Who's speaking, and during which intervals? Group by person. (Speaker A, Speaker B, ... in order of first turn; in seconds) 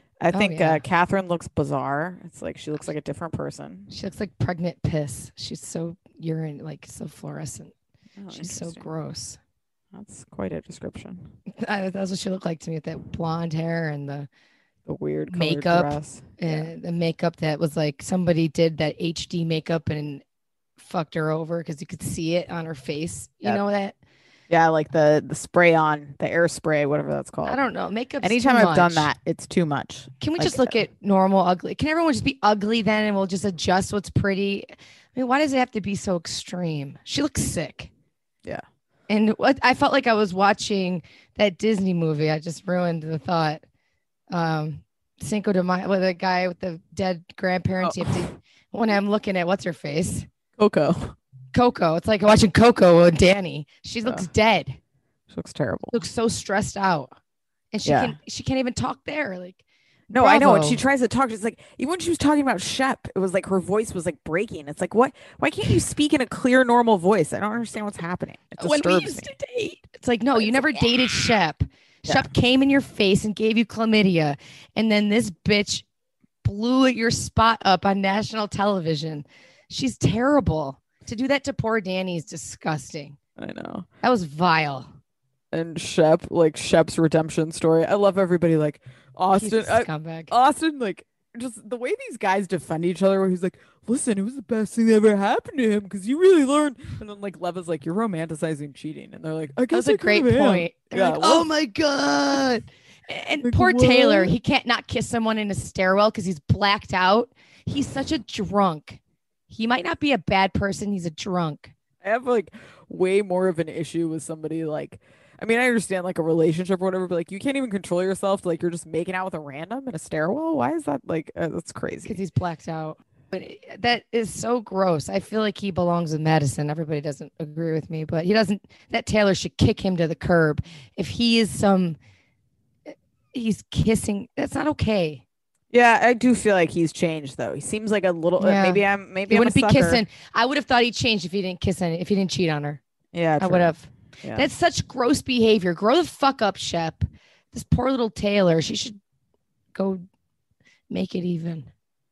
Speaker A: 0.2-3.9, 8.2-8.8, 9.9-11.3, 14.8-16.7, 24.5-27.6, 28.2-30.8, 47.8-48.3, 50.6-51.1, 55.3-56.0, 57.8-58.1, 60.1-69.3, 70.4-70.9, 83.4-83.9, 85.5-101.5, 103.4-104.3, 112.0-122.2, 135.7-140.0, 143.1-144.5
Speaker B: 0.3-0.8, 3.9-7.7, 8.3-9.4, 11.5-14.3, 15.3-20.2, 20.8-23.9, 27.4-29.1, 30.2-37.9, 39.1-43.6, 44.3-50.3, 51.5-54.8, 55.9-57.1, 57.7-59.6, 60.1-60.8, 68.6-75.8, 76.4-83.2, 84.0-84.9, 89.3-90.3, 99.7-111.7, 122.0-132.0, 132.9-135.2, 138.4-142.8, 143.4-149.0, 149.7-150.0, 150.9-151.7